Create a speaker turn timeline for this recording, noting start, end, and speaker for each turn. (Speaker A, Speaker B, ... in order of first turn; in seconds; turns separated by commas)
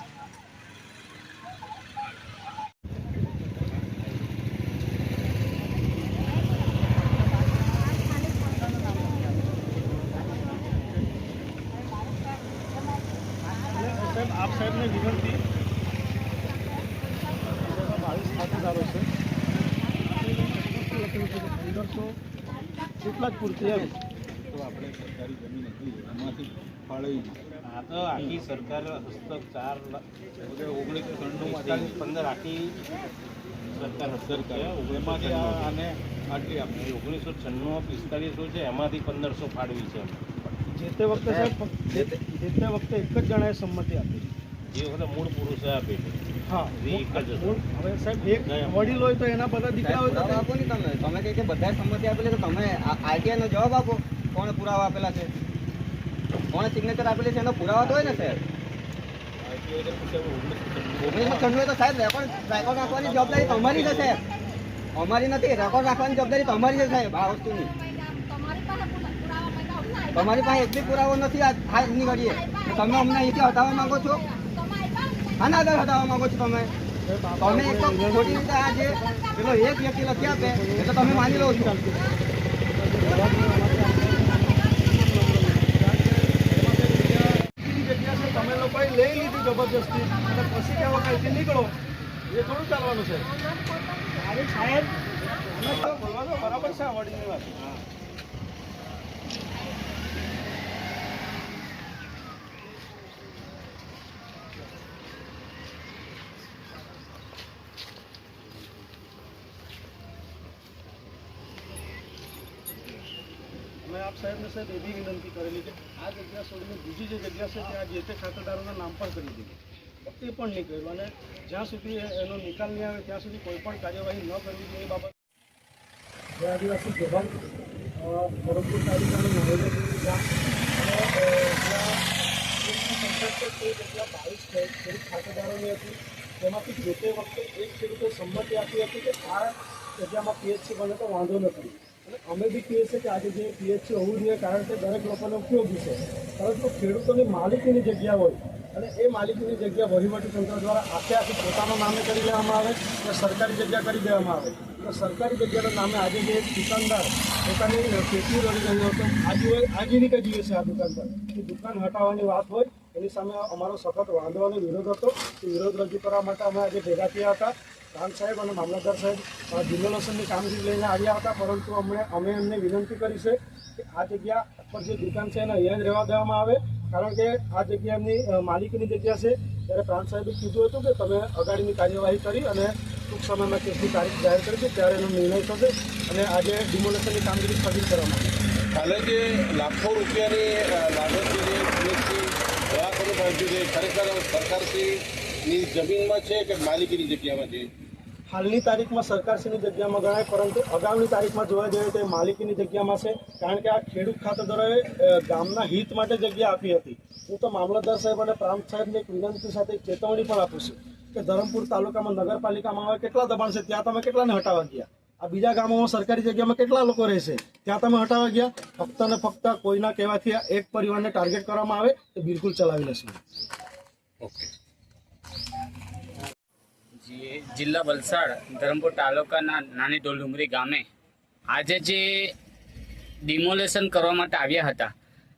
Speaker A: 13.7-15.4, Speaker A: 17.5-19.1, Speaker A: 20.1-22.2, Speaker A: 23.0-23.9, Speaker B: 24.5-27.4, Speaker C: 27.7-30.0, Speaker B: 30.4-32.0, Speaker C: 31.4-32.8, Speaker C: 33.7-35.8, Speaker B: 33.7-36.7, Speaker C: 36.6-40.5, Speaker A: 40.7-44.3, Speaker D: 41.1-42.2, Speaker C: 44.7-46.2, Speaker A: 46.5-50.5, Speaker C: 46.8-47.6, Speaker C: 48.4-49.0, Speaker D: 49.8-55.3, Speaker D: 56.5-58.4, Speaker B: 59.4-61.5, Speaker D: 61.0-64.2, Speaker B: 62.8-64.1, Speaker D: 65.0-67.7, Speaker D: 70.1-74.2, Speaker D: 75.4-76.7, Speaker A: 77.0-79.3, Speaker D: 77.4-81.7, Speaker A: 80.1-82.1, Speaker A: 82.7-91.8, Speaker A: 92.3-93.3, Speaker A: 94.1-97.6, Speaker A: 113.8-125.1, Speaker A: 126.4-127.3, Speaker A: 128.0-132.0, Speaker A: 132.6-188.3, Speaker E: 188.7-197.7, Speaker A: 198.3-223.2, Speaker F: 224.2-224.5, Speaker F: 227.0-230.8, Speaker F: 231.5-232.3, Speaker F: 233.2-234.9